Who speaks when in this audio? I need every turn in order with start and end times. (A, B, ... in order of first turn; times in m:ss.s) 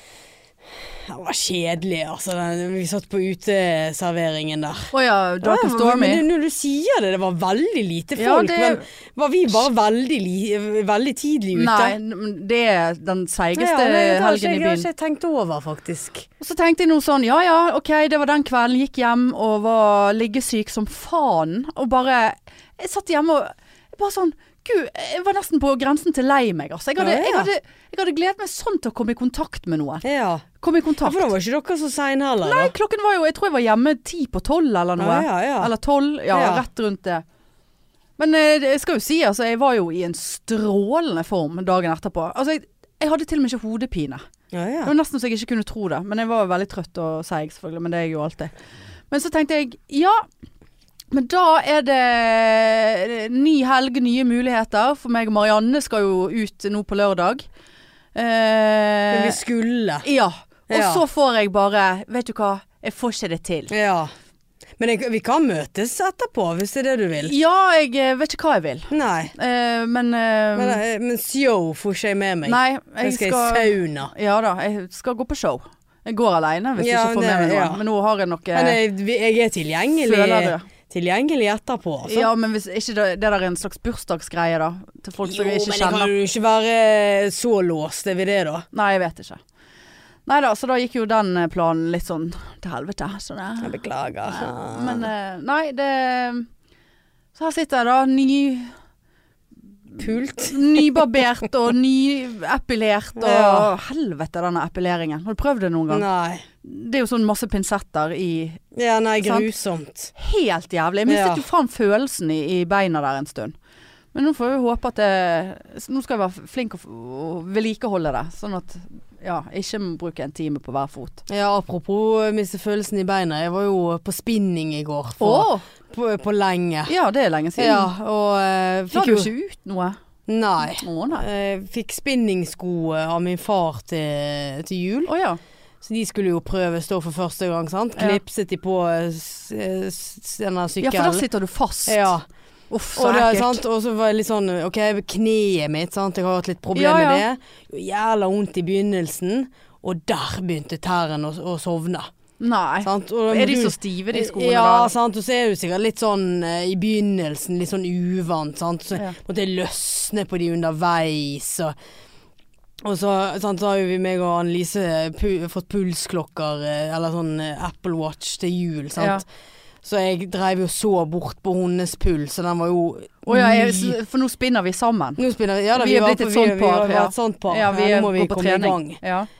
0:00.7-0:12.0 A
0:04.9-0:06.2 B
0:08.2-0:08.8 B
0:11.5-0:14.9 B
0:13.6-0:16.3 A
0:16.4-0:30.0 B
0:27.0-0:27.5 A
0:30.0-0:30.4 A
0:30.6-0:31.3 B
0:31.0-0:32.7 A
0:32.4-0:37.2 B
0:35.0-0:35.7 A
0:36.3-0:36.6 A
0:38.2-0:44.2 B
0:44.5-0:44.9 A
0:44.8-0:48.5 B
0:49.1-0:50.2 B
0:51.1-0:57.4 B
0:58.1-0:59.4 B
0:59.1-1:00.0 A
1:00.0-1:03.7 B
1:00.7-1:01.0 A
1:03.7-1:04.1 A
1:04.8-1:07.3 A
1:07.2-1:10.8 B
1:08.9-1:09.3 A
1:10.6-1:14.1 A
1:12.4-1:18.8 B
1:16.8-1:17.8 A
1:18.5-1:22.3 A
1:20.0-1:20.7 B
1:22.0-1:26.1 B
1:25.2-1:28.6 A
1:28.7-1:29.4 B
1:30.2-1:36.5 B
1:33.6-1:35.1 A
1:37.3-1:38.7 B
1:40.0-1:46.0 B
1:40.0-1:41.0 A
1:43.2-1:43.7 A
1:45.9-1:46.4 A
1:46.6-1:48.6 B
1:48.7-1:50.1 A
1:49.2-1:49.5 B
1:50.1-1:53.5 B
1:51.1-1:51.4 A
1:54.1-2:01.2 B
2:01.3-2:06.9 A
2:05.2-2:05.6 B
2:06.9-2:07.9 B
2:07.6-2:09.3 A
2:08.9-2:10.0 B
2:10.3-2:15.1 A
2:10.6-2:11.2 B
2:15.1-2:15.4 B
2:15.8-2:21.2 A
2:20.8-2:22.1 B
2:21.9-2:22.2 A
2:22.7-2:23.6 B
2:22.9-2:32.1 A
2:26.7-2:27.2 B
2:32.4-2:34.9 B
2:32.8-2:41.7 A
2:42.8-2:49.2 A
2:49.0-2:49.2 B
2:49.8-2:54.0 A
2:53.3-2:55.2 B
2:55.2-2:59.0 A
2:55.7-2:59.3 B